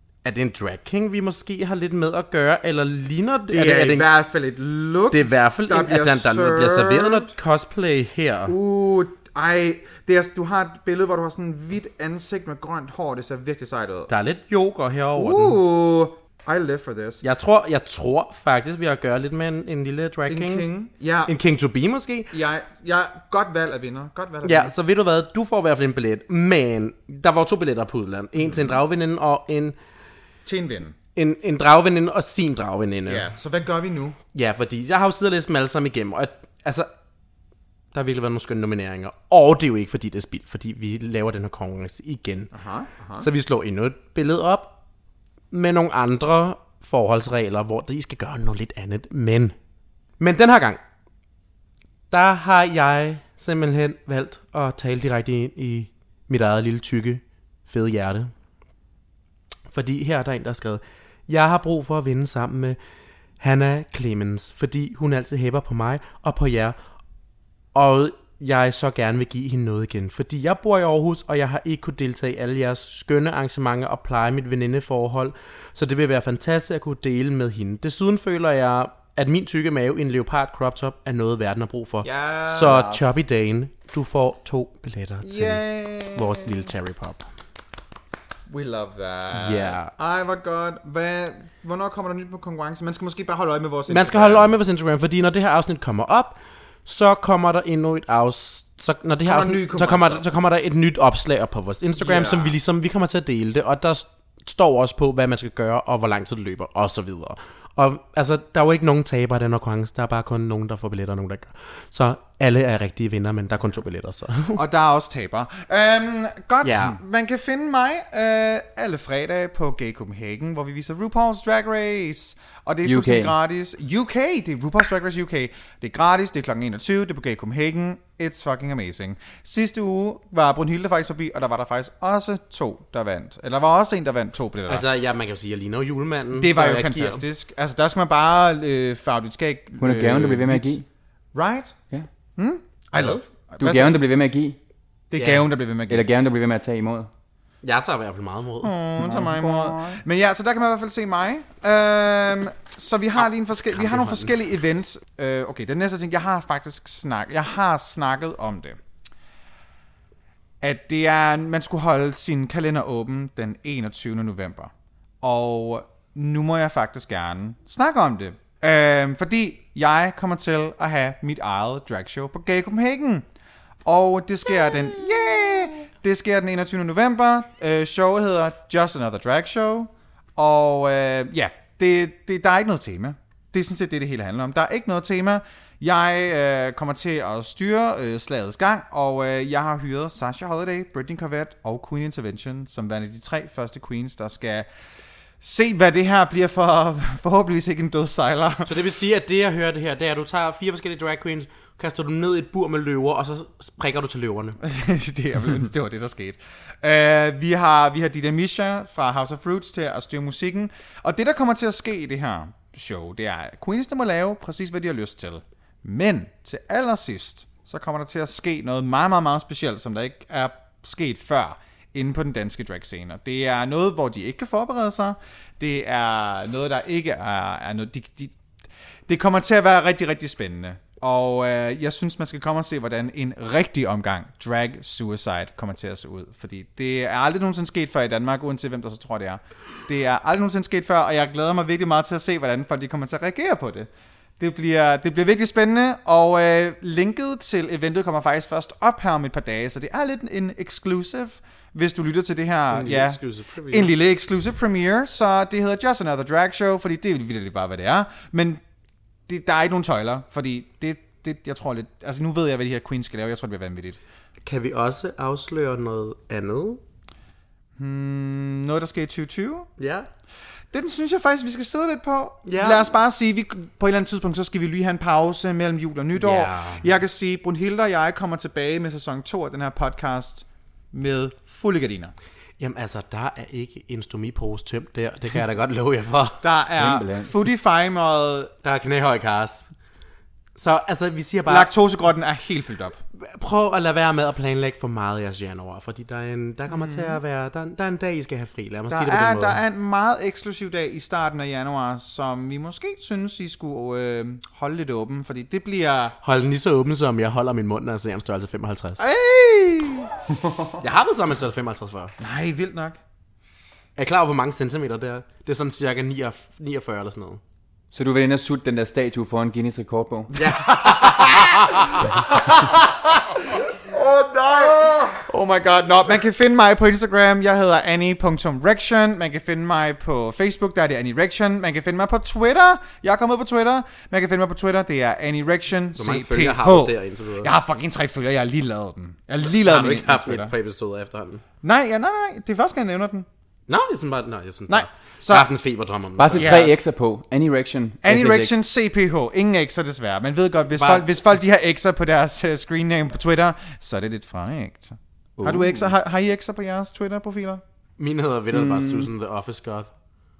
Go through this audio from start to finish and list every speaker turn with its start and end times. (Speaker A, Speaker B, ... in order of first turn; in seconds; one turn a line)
Speaker A: 0.2-4.1
Speaker B: 3.5-7.3
Speaker A: 5.1-8.5
Speaker B: 8.5-14.1
Speaker A: 14.1-15.6
Speaker B: 15.2-17.2
Speaker A: 17.2-20.7
Speaker B: 20.3-21.3
Speaker A: 21.2-22.3
Speaker B: 22.3-24.7
Speaker A: 24.4-29.8
Speaker B: 30.4-30.9
Speaker A: 31.1-33.3
Speaker B: 33.1-34.2
Speaker A: 34.3-36.9
Speaker A: 37.9-42.5
Speaker B: 42.5-43.3
Speaker A: 43.2-44.8
Speaker A: 45.5-49.5
Speaker A: 50.2-50.8
Speaker A: 52.1-58.3
Speaker A: 59.7-62.8
Speaker A: 63.4-66.8
Speaker A: 67.7-87.2
Speaker B: 82.0-83.0
Speaker B: 85.2-86.7
Speaker B: 88.5-94.5
Speaker A: 89.3-89.9
Speaker A: 93.9-114.6
Speaker B: 99.2-100.2
Speaker B: 102.0-102.5
Speaker B: 114.5-134.8
Speaker A: 116.6-117.0
Speaker C: 122.8-123.3
Speaker A: 134.7-137.2
Speaker B: 136.3-140.8
Speaker C: 139.8-140.8
Speaker B: 141.3-141.7
Speaker B: 142.4-144.0
Speaker A: 142.9-143.2
Speaker C: 143.6-144.6
Speaker B: 145.1-146.1
Speaker A: 145.2-145.5
Speaker C: 145.9-147.1
Speaker A: 147.6-148.7
Speaker B: 148.6-158.8
Speaker C: 149.0-150.0
Speaker A: 153.7-154.3
Speaker B: 160.6-164.7
Speaker B: 165.2-173.2
Speaker B: 173.8-194.7
Speaker B: 195.4-198.8
Speaker A: 198.7-204.6
Speaker B: 204.6-228.3
Speaker B: 229.1-243.9
Speaker B: 244.4-258.6
Speaker A: 252.7-253.9
Speaker B: 259.3-264.0
Speaker A: 264.4-266.8
Speaker B: 267.8-269.7
Speaker A: 269.8-270.1
Speaker B: 270.7-282.1
Speaker A: 272.4-272.9
Speaker A: 276.1-276.9
Speaker A: 282.6-286.4
Speaker B: 286.4-288.5
Speaker C: 286.8-287.3
Speaker A: 288.6-289.6
Speaker A: 290.5-291.7
Speaker B: 291.5-293.0
Speaker A: 293.2-299.6
Speaker B: 296.7-297.2
Speaker B: 298.9-306.1
Speaker A: 306.2-309.0
Speaker B: 309.0-310.1
Speaker A: 310.8-312.1
Speaker B: 312.2-313.0
Speaker A: 314.0-317.4
Speaker C: 317.9-320.3
Speaker A: 320.3-322.2
Speaker B: 320.4-340.5
Speaker A: 335.9-337.5
Speaker A: 339.6-341.4
Speaker B: 341.6-343.2
Speaker A: 343.7-346.7
Speaker B: 344.7-345.5
Speaker C: 346.2-348.5
Speaker B: 346.4-346.7
Speaker B: 348.0-357.6
Speaker A: 350.7-351.1
Speaker C: 355.4-355.9
Speaker A: 358.0-359.9
Speaker C: 358.5-359.1